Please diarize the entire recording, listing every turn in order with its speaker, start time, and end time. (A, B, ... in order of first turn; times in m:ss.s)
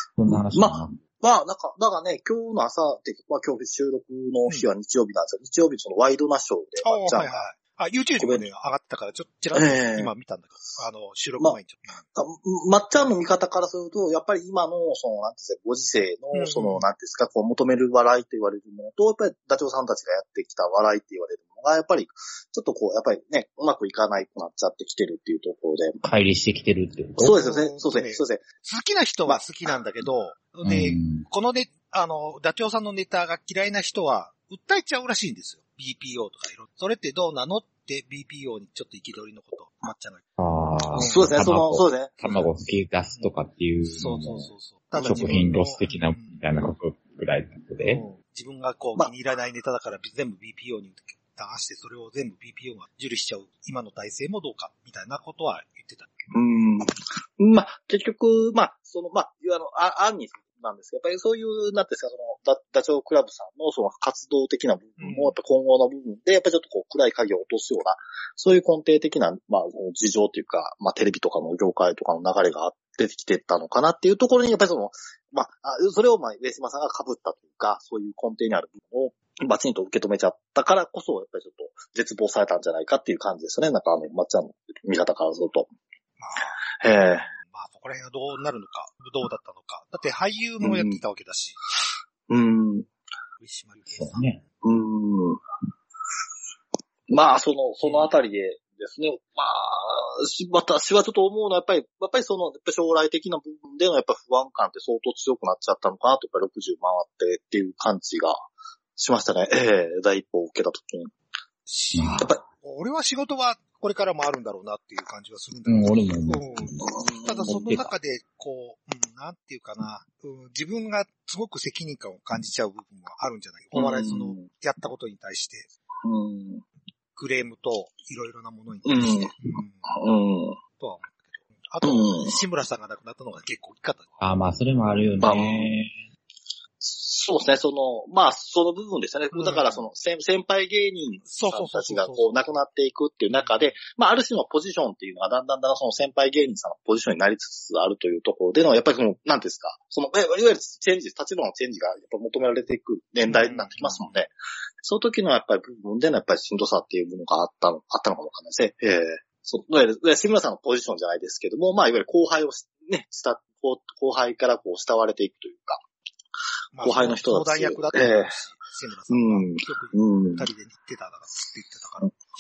0:00.2-0:01.0 A
0:00.5-0:07.4 B
0:06.8-0:12.0 C
0:08.2-0:08.5 B
0:09.5-0:10.1 B
0:12.2-0:26.0 B
0:16.3-0:16.9 C
0:26.0-0:27.4 A
0:27.2-0:28.4 B
0:27.2-0:40.2 C
0:30.6-0:31.3 A
0:40.4-0:48.0 A
0:41.0-0:41.3 C
0:41.0-0:42.2 B
0:43.9-0:46.4 C
0:45.0-0:45.3 B
0:47.8-0:56.1 C
0:56.3-1:25.7 B
1:05.0-1:05.3 C
1:26.2-1:26.5 C
1:26.8-1:27.3 B
1:27.4-1:31.6 C
1:30.6-1:31.0 B
1:32.3-1:32.9 B
1:33.4-1:34.4 C
1:33.9-1:34.4 A
1:34.6-1:35.4 B
1:37.1-1:48.4 B
1:37.8-1:38.1 C
1:49.0-1:51.1 B
1:51.7-2:05.7 C
1:52.0-1:52.3 A
1:55.7-1:56.8 A
1:56.8-1:57.5 B
1:57.5-1:57.9 A
2:03.8-2:04.5 B
2:06.0-2:06.6 B
2:07.2-2:09.9 C
2:08.8-2:09.4 B
2:09.9-2:10.6 B
2:10.8-2:14.2 C
2:11.8-2:12.4 B
2:14.2-2:16.0 A
2:15.2-2:15.7 B
2:16.8-2:34.3 B
2:19.3-2:19.8 C
2:21.3-2:22.3 C
2:23.4-2:23.8 C
2:33.3-2:34.2 C
2:34.8-2:45.8 B
2:46.7-2:52.1 C
2:46.8-2:48.4 B
2:49.1-2:50.5 B